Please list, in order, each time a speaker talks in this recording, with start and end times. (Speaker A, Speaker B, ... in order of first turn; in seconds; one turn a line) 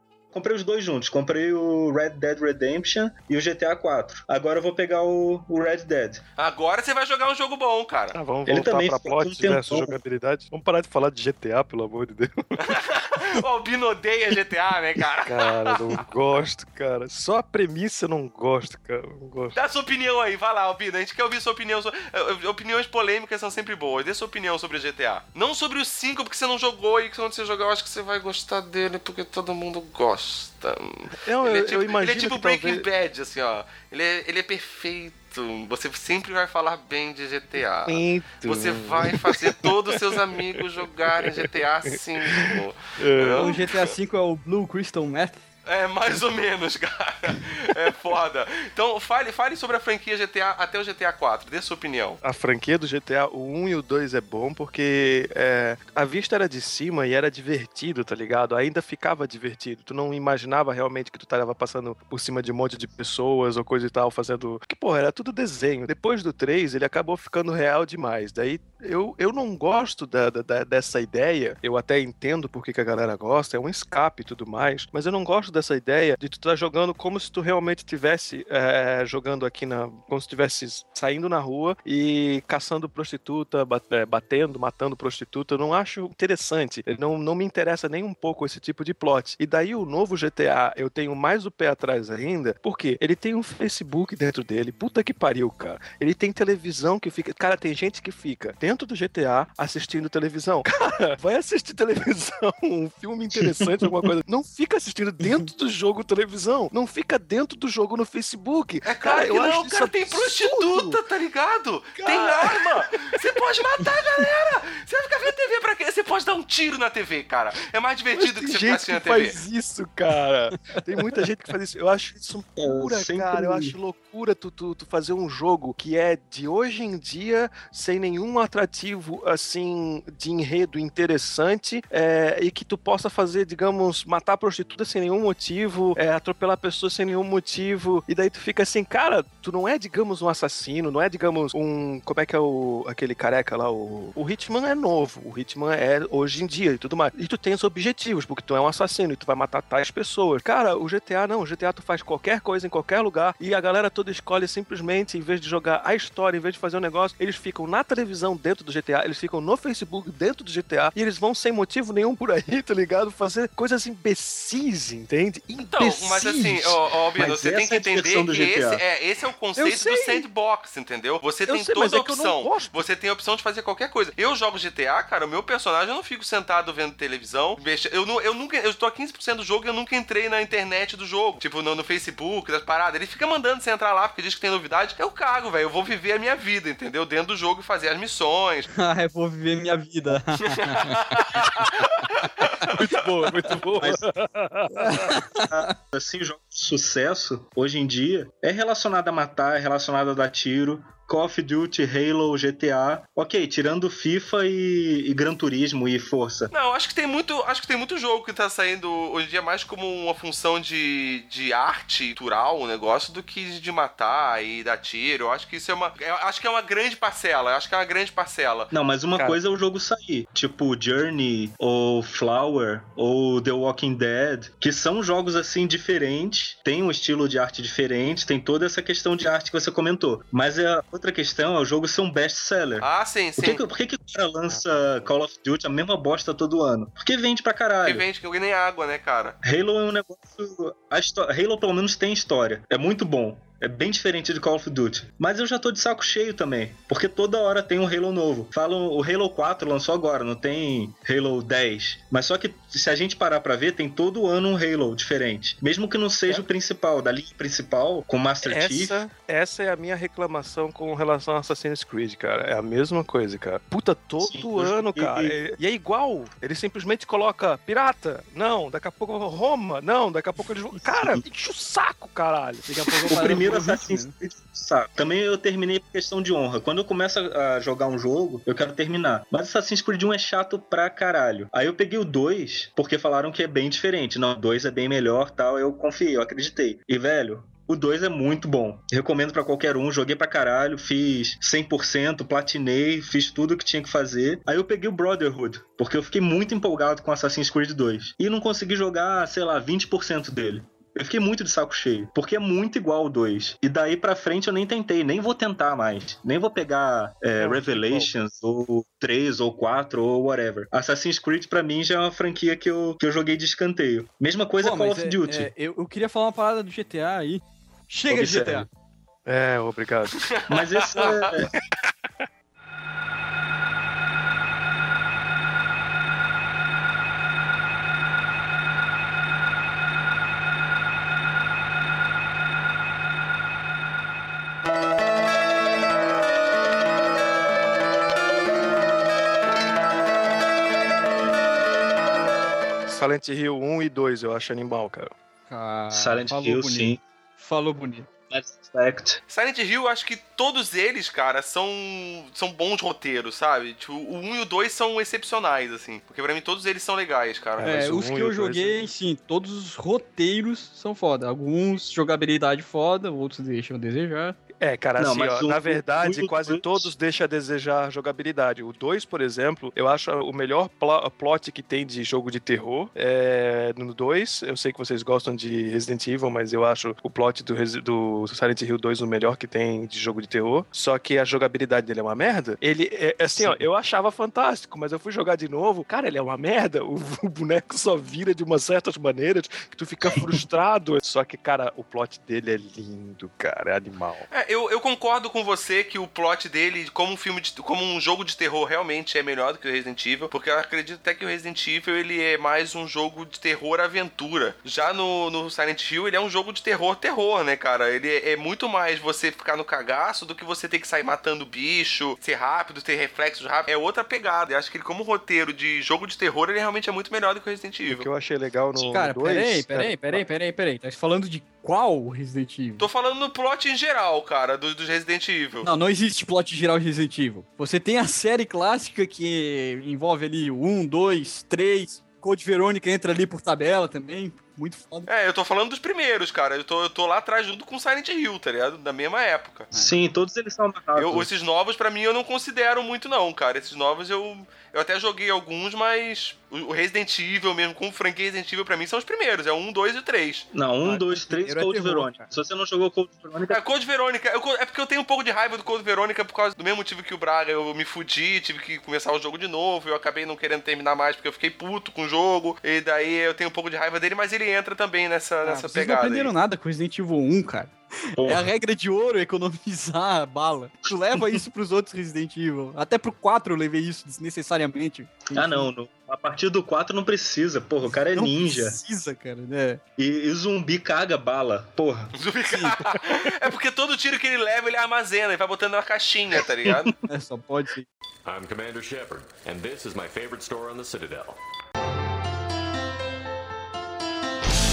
Speaker A: 0.3-6.2
Speaker B: 6.4-8.2
Speaker C: 8.1-12.8
Speaker A: 8.5-10.0
Speaker B: 12.6-16.0
Speaker C: 15.3-19.6
Speaker B: 19.6-43.9
Speaker C: 31.3-32.9
Speaker C: 37.9-43.5
Speaker D: 43.4-45.4
Speaker B: 45.6-52.2
Speaker C: 52.2-111.0
Speaker B: 108.9-119.4
Speaker C: 112.0-113.0
Speaker C: 118.2-166.8
Speaker A: 122.6-123.8
Speaker B: 165.6-188.7
Speaker A: 167.2-168.8
Speaker D: 169.6-170.1
Speaker C: 171.5-172.8
Speaker D: 188.7-191.0
Speaker B: 190.6-192.7
Speaker C: 192.7-195.1
Speaker D: 194.8-195.7
Speaker A: 195.3-206.5
Speaker B: 206.5-218.7
Speaker A: 218.7-238.1
Speaker B: 232.8-233.6
Speaker C: 234.5-235.0
Speaker B: 237.8-239.4
Speaker A: 239.4-259.0
Speaker C: 258.4-273.4
Speaker A: 264.2-265.4
Speaker D: 272.7-274.1
Speaker A: 273.1-315.5
Speaker C: 307.4-308.1
Speaker D: 314.6-318.7
Speaker A: 318.1-318.7
Speaker C: 319.3-320.1
Speaker B: 320.2-321.1
Speaker A: 320.5-321.5
Speaker C: 342.9-345.1
Speaker D: 345.5-348.1
Speaker A: 345.9-347.0
Speaker A: 348.3-349.2
Speaker B: 349.3-357.8
Speaker C: 357.6-358.9
Speaker D: 357.6-364.4
Speaker C: 364.6-394.3
Speaker A: 365.0-366.9
Speaker B: 394.3-418.1
Speaker C: 417.9-420.2
Speaker D: 418.9-422.9
Speaker B: 422.8-425.7
Speaker D: 425.6-435.1
Speaker B: 435.1-439.7
Speaker A: 439.7-441.3
Speaker B: 441.0-450.5
Speaker A: 450.5-453.6
Speaker D: 450.9-452.3
Speaker B: 453.5-466.3
Speaker D: 465.4-475.7
Speaker A: 468.2-468.5
Speaker A: 475.3-478.8
Speaker D: 478.1-479.8
Speaker A: 480.0-482.1
Speaker B: 482.2-486.9
Speaker D: 482.5-482.8
Speaker A: 486.7-486.9
Speaker D: 487.1-487.9
Speaker E: 488.2-491.4